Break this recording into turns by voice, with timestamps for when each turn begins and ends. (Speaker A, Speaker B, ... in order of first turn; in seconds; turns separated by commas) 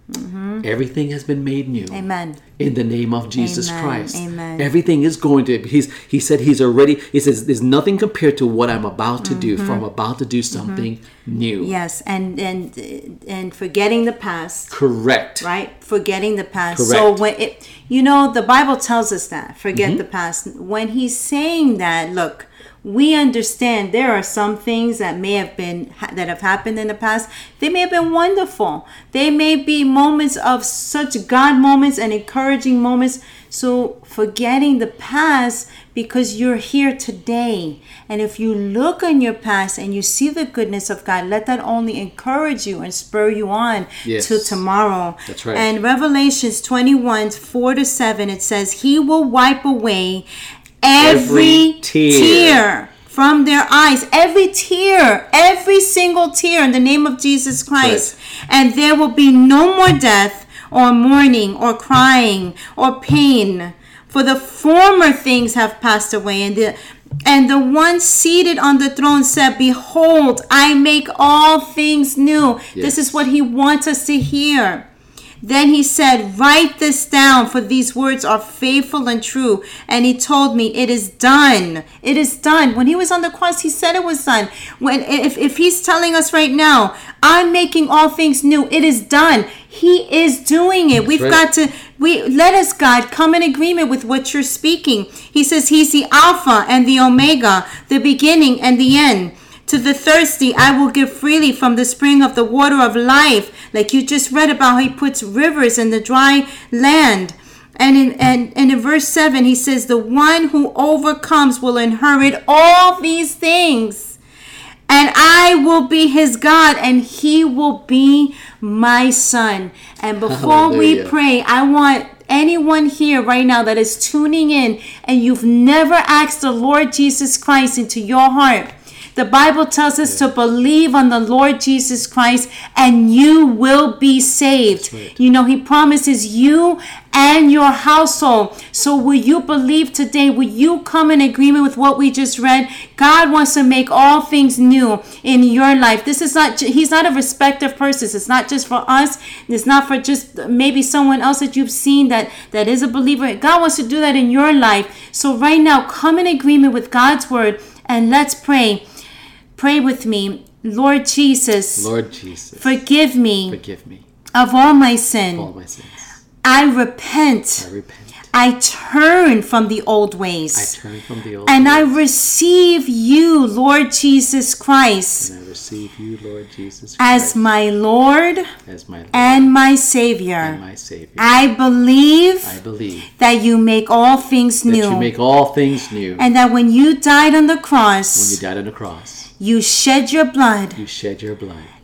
Speaker A: 0.1-0.7, Speaker B: 0.6-2.0, Speaker A: 1.9-2.4, Speaker B: 2.6-11.7, Speaker A: 3.4-4.7, Speaker A: 9.2-9.8, Speaker A: 10.5-10.9, Speaker A: 11.6-14.8, Speaker B: 14.7-15.5, Speaker A: 15.4-50.3, Speaker B: 16.7-17.2, Speaker B: 19.7-20.0, Speaker B: 44.0-44.6, Speaker B: 45.3-45.7, Speaker A: 50.8-74.9, Speaker B: 51.0-52.6, Speaker B: 57.8-58.1, Speaker B: 72.7-73.2, Speaker A: 75.4-114.2, Speaker B: 91.1-91.4, Speaker A: 114.9-158.8, Speaker B: 120.2-121.1, Speaker B: 134.7-135.2, Speaker A: 159.6-161.9, Speaker B: 161.8-162.8, Speaker A: 162.6-163.6, Speaker B: 163.5-164.0, Speaker A: 164.3-165.5, Speaker B: 165.3-166.1, Speaker A: 166.4-167.7, Speaker B: 167.6-168.2, Speaker A: 168.3-170.8, Speaker B: 170.5-172.0, Speaker A: 171.5-175.3, Speaker B: 175.2-177.4, Speaker A: 177.0-178.5, Speaker B: 178.7-179.5, Speaker A: 179.1-180.6, Speaker B: 180.4-181.4, Speaker A: 181.2-182.6, Speaker B: 182.4-183.1, Speaker A: 183.2-185.1, Speaker B: 184.7-186.2, Speaker A: 186.2-188.4, Speaker B: 188.2-189.3, Speaker A: 189.4-190.8, Speaker B: 190.8-191.7